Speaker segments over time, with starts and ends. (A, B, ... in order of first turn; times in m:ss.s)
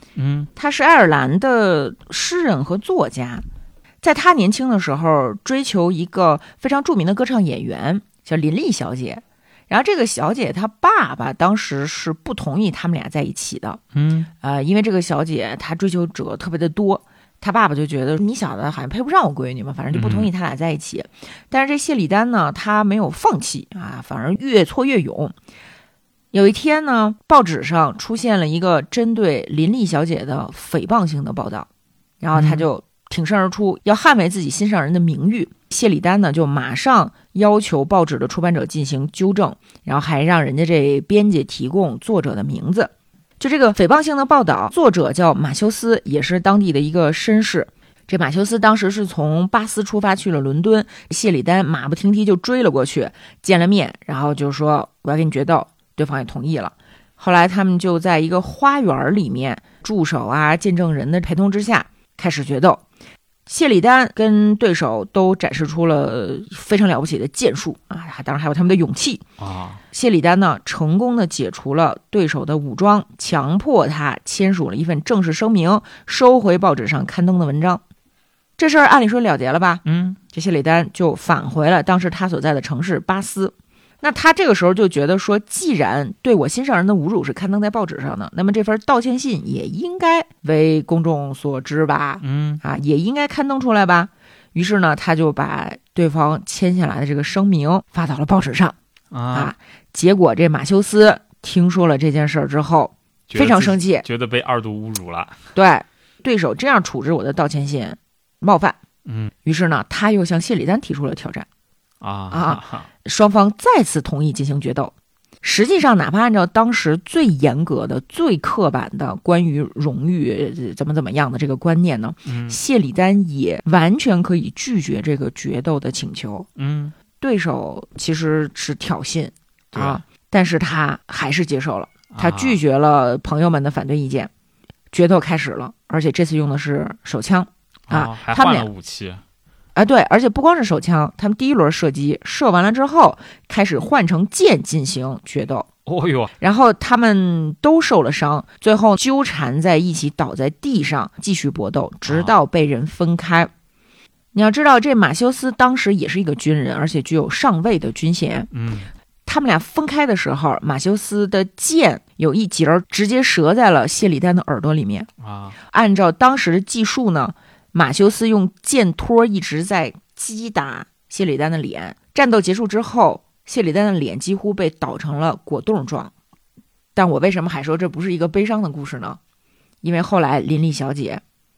0:00.2-0:00.5 A
0:00.6-0:03.4 B
0:04.0-0:13.8 B
0:13.9-0:14.3 A
0:14.4-0:25.3 B
0:19.9-0:20.3 A
0:26.3-0:31.7 B
0:32.2-1:02.8 B
0:32.3-0:32.6 A
1:03.4-1:09.2 B
1:09.4-1:09.8 A
1:09.9-1:17.8 B
1:18.6-1:38.8 B
1:19.8-1:20.2 A
1:32.2-1:32.6 A
1:39.1-1:39.5 A
1:39.3-1:44.0 B
1:43.3-1:45.4 A
1:45.5-1:48.8 B
1:49.0-1:49.3 A
1:49.4-1:51.5 B
1:52.0-1:52.9 A
1:52.3-2:06.5 B
2:02.2-2:02.6 A
2:06.6-2:06.9 A
2:07.2-2:14.3 B
2:09.7-2:10.0 A
2:12.1-2:12.6 A
2:14.9-2:18.7 B
2:17.9-2:19.2 A
2:19.7-2:25.7 B
2:25.8-2:26.3 A
2:26.4-2:33.5 B
2:32.1-2:32.3 A
2:34.3-2:38.5 B
2:38.5-2:38.9 A
2:39.2-2:45.1 B
2:45.2-2:45.6 A
2:45.7-2:56.1 B
2:56.9-2:59.2 B
2:59.8-3:01.2 B